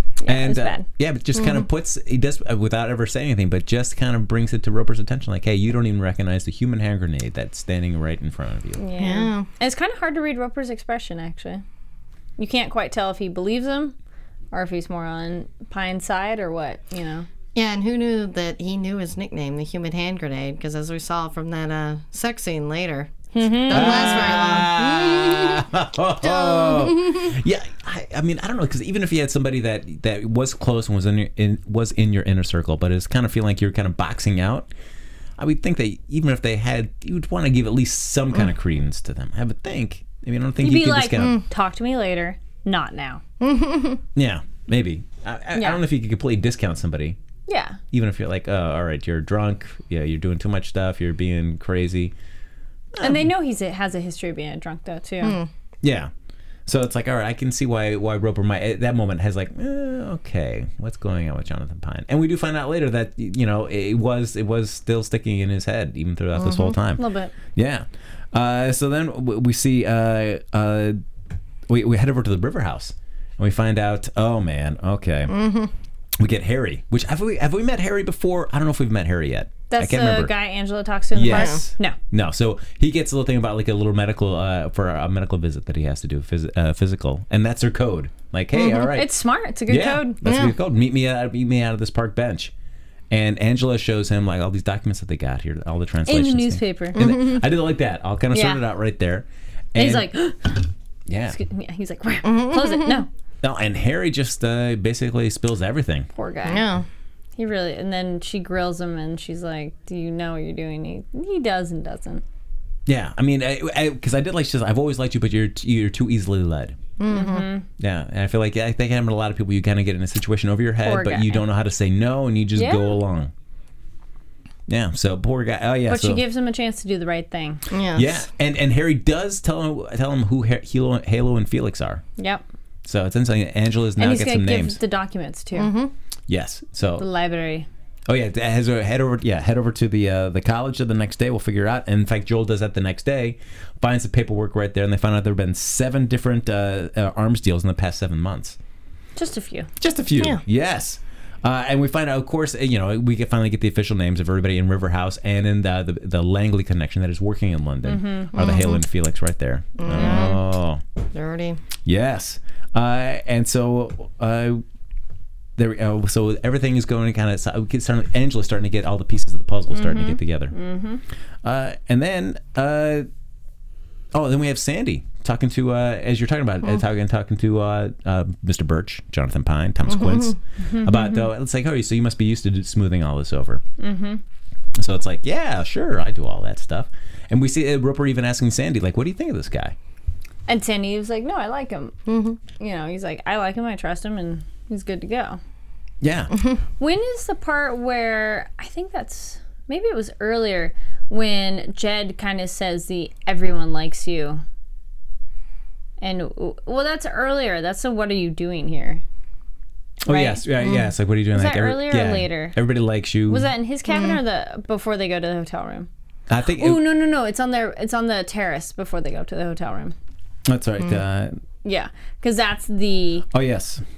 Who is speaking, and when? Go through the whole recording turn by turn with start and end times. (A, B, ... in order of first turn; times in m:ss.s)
0:00.2-0:00.8 A
0:00.2-0:08.8 B
0:01.4-0:01.6 C
0:08.8-0:11.6 A
0:09.0-0:09.5 C
0:12.4-0:13.9 A
0:14.5-0:17.3 A
0:17.5-0:25.7 C
0:23.3-0:24.4 A
0:23.7-0:34.7 B
0:26.2-0:27.3 C
0:35.4-0:41.4 B
0:40.6-0:43.2 A
0:43.4-0:44.0 C
0:44.1-0:47.2 B
0:45.5-0:45.8 A
0:47.5-0:47.8 A
0:47.9-0:52.1 B
0:52.9-0:53.2 B
0:53.0-0:55.4 A
0:55.2-0:55.5 C
0:55.8-0:56.1 B
0:56.6-1:11.0 B
1:06.4-1:06.7 C
1:07.0-1:07.3 A
1:11.7-1:15.3 B
1:15.3-1:15.7 C
1:16.2-1:20.3 B
1:19.7-1:22.0 A
1:21.1-1:29.1 B
1:21.2-1:21.6 C
1:28.7-1:30.2 A
1:29.7-1:32.5 B
1:30.2-1:30.5 C
1:33.1-1:40.1 B
1:36.1-1:37.0 A
1:36.9-1:37.4 C
1:38.3-1:38.6 A
1:39.7-1:40.7 A
1:41.1-1:41.4 B
1:41.3-1:43.1 A
1:42.2-1:43.0 C
1:43.4-1:46.1 B
1:46.1-1:46.7 A
1:46.4-1:46.8 C
1:47.4-1:52.2 A
1:52.9-1:56.8 B
1:57.0-1:57.5 C
1:57.1-1:57.6 A
1:57.8-2:03.3 B
2:00.8-2:01.4 A
2:02.6-2:03.0 A
2:04.7-2:06.2 B
2:05.9-2:07.6 A
2:07.7-2:08.2 C
2:07.9-2:12.0 B
2:12.2-2:12.4 A
2:12.8-2:14.8 B
2:14.0-2:15.7 A
2:15.5-2:15.9 C
2:16.3-2:17.0 B
2:17.0-2:17.7 A
2:18.1-2:28.6 B
2:29.2-2:29.7 A
2:29.8-2:40.8 B
2:37.8-2:38.6 A
2:38.3-2:38.8 C
2:39.8-2:40.4 C
2:41.1-2:41.6 C
2:41.8-2:44.6 B
2:45.6-2:50.5 B
2:49.8-2:51.0 A
2:51.4-2:53.1 B
2:54.1-3:03.6 B
2:59.9-3:00.3 C
3:00.7-3:01.3 A
3:03.8-3:04.2 A
3:04.8-3:09.7 B
3:10.5-3:11.9 A
3:12.1-3:12.4 C
3:12.5-3:15.4 A
3:16.0-3:16.3 B
3:16.8-3:24.4 A
3:26.0-3:29.0 A
3:30.0-3:33.5 B
3:30.1-3:30.4 A
3:30.6-3:30.9 C
3:31.3-3:32.6 A
3:33.3-3:35.9 A
3:33.9-3:34.2 C
3:36.3-3:36.8 B
3:36.5-3:39.9 A
3:40.4-3:41.4 B
3:41.6-3:43.3 A
3:43.3-3:43.8 B